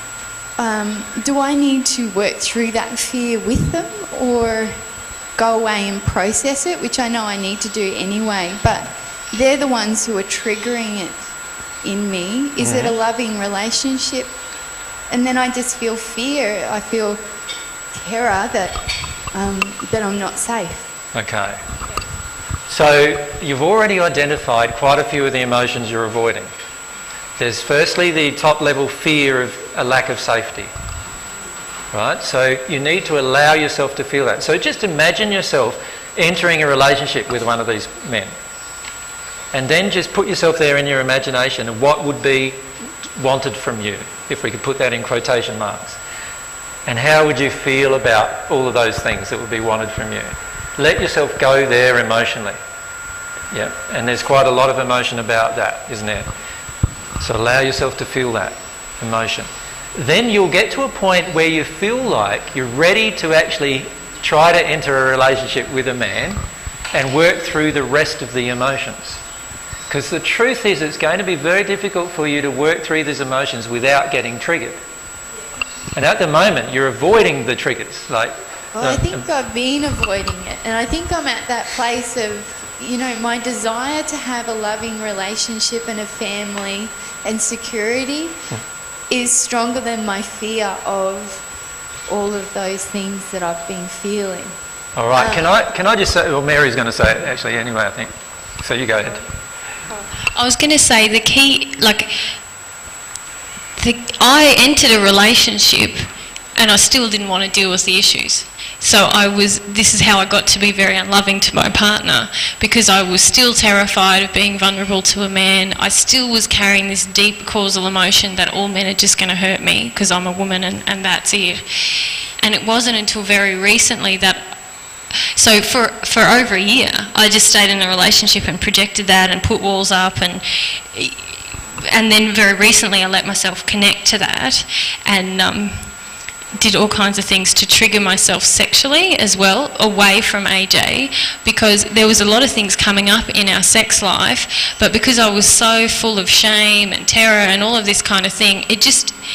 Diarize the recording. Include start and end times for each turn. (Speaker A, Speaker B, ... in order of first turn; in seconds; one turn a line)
Speaker A: 0.6-4.8
Speaker A: 5.4-11.3
Speaker A: 11.8-14.3
Speaker B: 12.6-13.0
Speaker A: 15.1-17.2
Speaker A: 17.9-20.9
Speaker B: 21.1-21.6
Speaker B: 22.7-26.5
Speaker B: 27.4-30.7
Speaker B: 31.9-38.3
Speaker B: 39.5-42.6
Speaker B: 43.2-46.0
Speaker B: 46.9-52.6
Speaker B: 53.5-56.3
Speaker B: 57.2-66.4
Speaker B: 66.9-69.2
Speaker B: 69.9-74.8
Speaker B: 76.0-79.3
Speaker A: 78.8-88.4
Speaker A: 89.1-91.4
Speaker A: 92.1-94.5
Speaker B: 95.0-99.2
Speaker A: 95.2-95.5
Speaker C: 100.3-102.3
Speaker C: 103.8-124.6
Speaker C: 125.3-135.9
Speaker C: 136.6-149.2